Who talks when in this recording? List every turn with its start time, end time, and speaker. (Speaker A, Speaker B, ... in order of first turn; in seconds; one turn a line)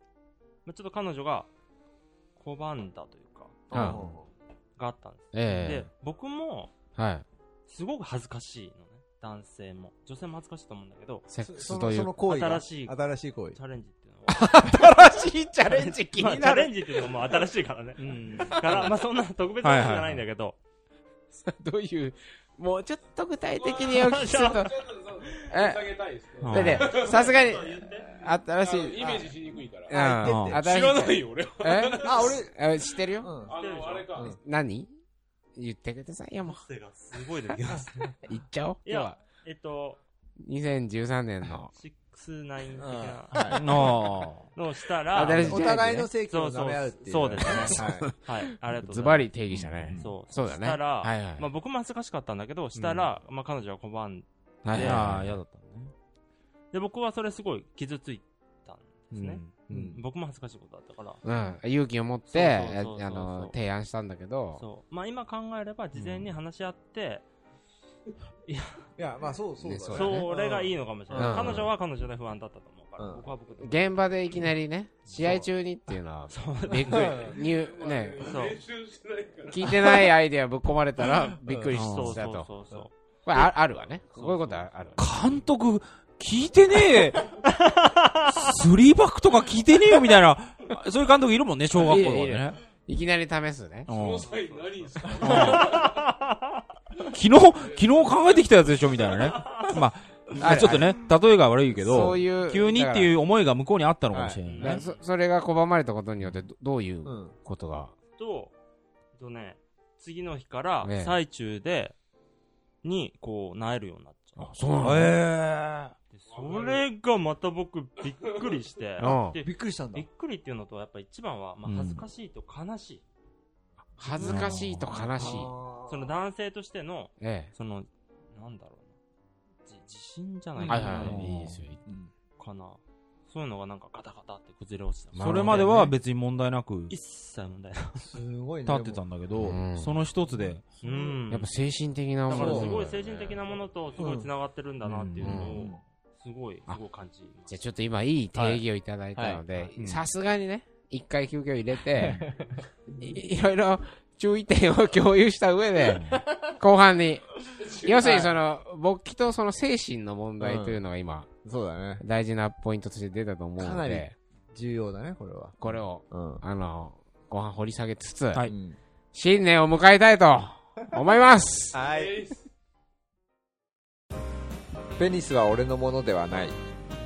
Speaker A: 0.6-1.5
Speaker A: 2.4-4.0
Speaker B: 3.7-4.3
Speaker C: 3.7-4.0
Speaker A: 4.8-6.7
Speaker C: 5.3-5.9
Speaker C: 7.0-7.2
Speaker A: 7.7-11.3
Speaker C: 11.3-12.1
Speaker B: 11.4-13.6
Speaker A: 12.2-14.8
Speaker C: 14.3-16.8
Speaker A: 15.7-20.6
Speaker D: 18.0-18.9
Speaker C: 18.5-18.8
Speaker D: 19.6-20.2
Speaker C: 21.4-24.7
Speaker E: 23.5-27.5
Speaker A: 23.9-24.7
Speaker C: 25.5-25.9
Speaker D: 26.4-27.0
Speaker C: 26.5-29.1
Speaker A: 26.8-28.2
Speaker E: 28.6-32.4
Speaker B: 28.9-29.3
Speaker B: 29.9-30.6
Speaker C: 29.9-33.3
Speaker D: 30.2-30.6
Speaker B: 32.0-32.5
Speaker B: 33.2-33.6
Speaker A: 33.5-34.3
Speaker E: 33.5-34.4
Speaker C: 34.4-34.9
Speaker C: 35.5-36.6
Speaker A: 36.4-38.2
Speaker C: 38.3-39.2
Speaker A: 38.8-40.0
Speaker C: 40.4-41.7
Speaker A: 41.7-43.9
Speaker B: 42.8-43.6
Speaker D: 43.5-44.5
Speaker A: 44.5-45.7
Speaker C: 45.1-46.1
Speaker B: 45.4-48.1
Speaker A: 46.2-49.3
Speaker C: 47.6-48.1
Speaker C: 48.7-51.5
Speaker D: 49.5-50.0
Speaker A: 50.0-55.2
Speaker D: 52.8-53.1
Speaker C: 54.6-55.3
Speaker D: 54.7-55.9
Speaker A: 56.7-61.2
Speaker D: 59.1-59.5
Speaker B: 59.7-60.0
Speaker C: 61.2-64.6
Speaker A: 62.3-63.5
Speaker A: 64.5-67.3
Speaker D: 65.9-66.3
Speaker A: 68.5-68.8
Speaker B: 69.0-71.6
Speaker A: 69.8-74.0
Speaker E: 70.0-70.3
Speaker C: 71.1-71.7
Speaker B: 73.0-73.2
Speaker C: 73.6-78.2
Speaker A: 75.1-75.4
Speaker A: 76.3-77.3
Speaker B: 76.9-77.3
Speaker E: 77.1-80.1
Speaker A: 78.2-78.6
Speaker C: 79.5-82.5
Speaker B: 81.4-81.7
Speaker A: 81.7-82.9
Speaker D: 81.7-82.2
Speaker C: 83.2-85.0
Speaker E: 84.2-84.6
Speaker D: 85.0-87.3
Speaker A: 87.3-88.5
Speaker D: 88.3-92.6
Speaker C: 91.8-93.9
Speaker D: 93.9-94.3
Speaker E: 93.9-96.0
Speaker D: 95.2-95.8
Speaker A: 95.3-96.6
Speaker D: 97.0-104.8
Speaker E: 97.6-99.2
Speaker A: 99.4-99.7
Speaker C: 100.4-100.9
Speaker C: 101.8-103.1
Speaker B: 104.1-104.4
Speaker A: 104.4-105.0
Speaker C: 104.6-107.9
Speaker B: 107.0-107.3
Speaker A: 108.2-108.5
Speaker A: 109.2-112.0
Speaker C: 110.8-111.1
Speaker A: 112.8-114.8
Speaker C: 114.4-115.1
Speaker D: 114.8-115.9
Speaker A: 116.1-123.0
Speaker E: 116.3-116.8
Speaker E: 118.0-118.5
Speaker C: 119.0-119.4
Speaker B: 119.4-120.0
Speaker D: 121.6-122.0
Speaker C: 124.0-125.5
Speaker A: 124.2-124.5
Speaker D: 124.2-125.1
Speaker B: 125.2-126.1
Speaker A: 125.9-128.9
Speaker C: 127.2-127.5
Speaker A: 129.6-131.2
Speaker B: 130.6-131.2
Speaker C: 130.7-131.8
Speaker D: 130.9-131.6
Speaker B: 131.8-132.1
Speaker A: 132.4-135.9
Speaker C: 135.1-135.9
Speaker D: 135.2-136.9
Speaker A: 136.9-138.1
Speaker B: 138.0-139.0
Speaker D: 138.7-140.7
Speaker C: 139.4-139.9
Speaker B: 140.5-141.2
Speaker A: 140.8-141.5
Speaker C: 141.3-143.0
Speaker A: 142.3-147.6
Speaker B: 142.3-142.8
Speaker B: 144.0-144.3
Speaker D: 144.8-145.6
Speaker C: 145.2-145.6
Speaker B: 145.5-145.8
Speaker C: 147.5-152.3
Speaker B: 148.3-148.6
Speaker B: 149.2-149.4
Speaker D: 149.8-150.1
Speaker B: 151.9-152.6
Speaker C: 152.9-161.3
Speaker D: 155.9-156.2
Speaker B: 156.1-156.4
Speaker E: 157.6-158.3
Speaker B: 157.9-158.3
Speaker B: 160.4-160.8
Speaker B: 161.4-162.0
Speaker C: 162.0-164.1
Speaker B: 163.6-166.4
Speaker C: 165.6-168.5
Speaker B: 168.5-168.8
Speaker C: 169.1-171.8
Speaker B: 171.7-172.2
Speaker E: 171.8-172.4
Speaker B: 175.0-176.6